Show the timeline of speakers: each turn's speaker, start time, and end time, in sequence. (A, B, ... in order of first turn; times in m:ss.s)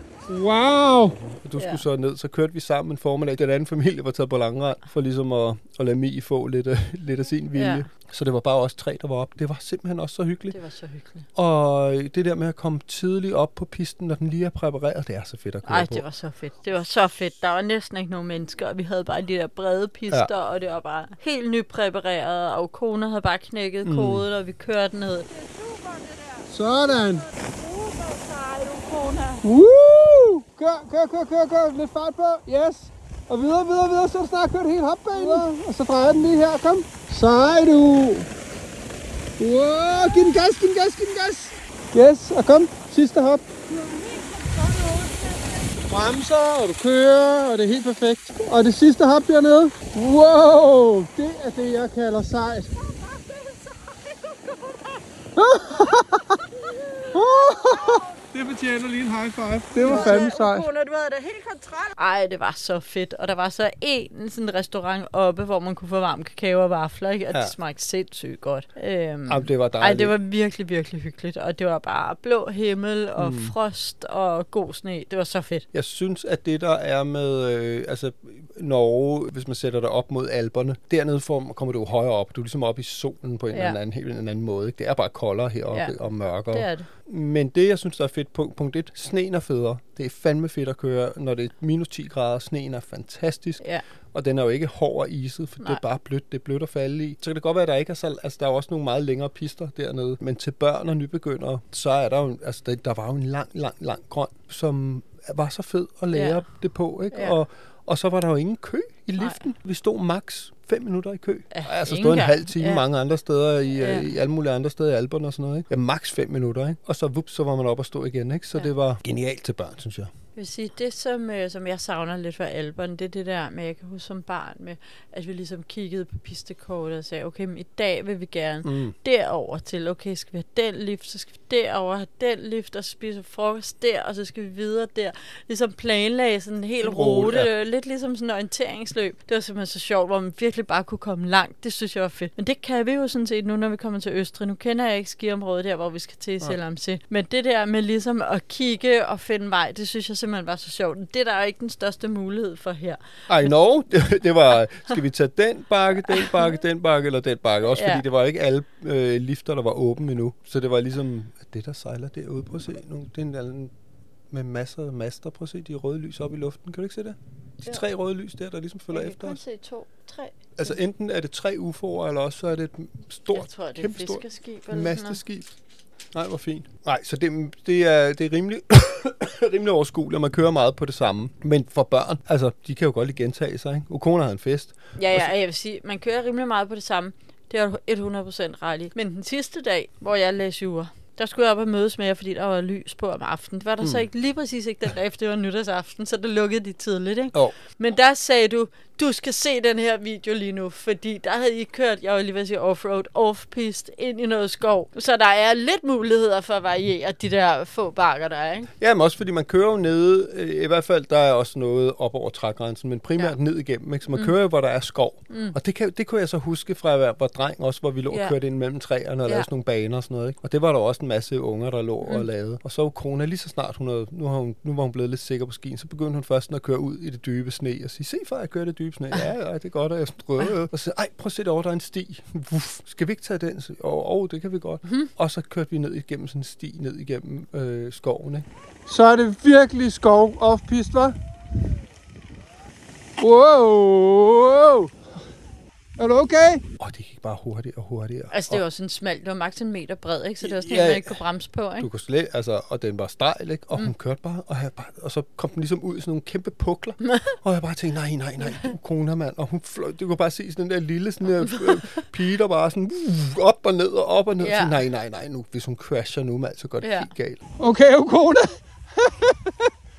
0:00.2-0:01.2 A
0:01.2-0:10.6 B
0:01.6-0:01.8 C
0:07.6-0:07.8 C
0:10.5-0:11.3 C
0:11.3-0:16.0 B
0:15.6-0:25.3 C
0:23.8-0:24.2 B
0:26.5-0:27.3 A
0:27.6-0:29.4 C
0:29.4-0:38.3 A
0:35.1-0:35.4 C
0:39.4-0:43.9 A
0:45.9-0:52.7 A
0:55.4-0:56.2 A
0:57.1-1:00.7 A
0:59.8-1:15.6 C
1:09.3-1:10.2 B
1:13.2-1:13.6 B
1:15.7-2:00.1 B
1:23.5-1:23.8 C
1:26.5-1:26.9 C
1:46.1-1:46.4 C
1:51.5-1:52.8 C
1:53.8-1:54.1 C
2:00.4-2:33.0 C
2:08.6-2:08.9 B
2:16.8-2:17.5 B
2:33.3-2:43.7 B
2:36.2-2:36.5 C
2:37.7-2:38.0 C
2:44.3-2:49.4 B
2:48.9-2:50.7 C
2:50.6-2:55.5 B
2:53.3-2:55.2 C
2:56.1-3:05.3 B
3:05.0-3:28.7 C
3:28.8-3:58.5 B
3:35.3-3:35.6 C
3:38.1-3:38.4 C
3:58.9-4:01.1 A
4:03.2-4:04.9 A
4:06.0-4:06.6 A
4:06.8-4:08.6 B
4:08.3-4:11.9 C
4:10.4-4:11.2 B
4:11.8-4:27.4 B
4:17.0-4:17.4 C
4:24.4-4:24.8 C
4:26.8-4:27.1 C
4:27.6-4:29.7 A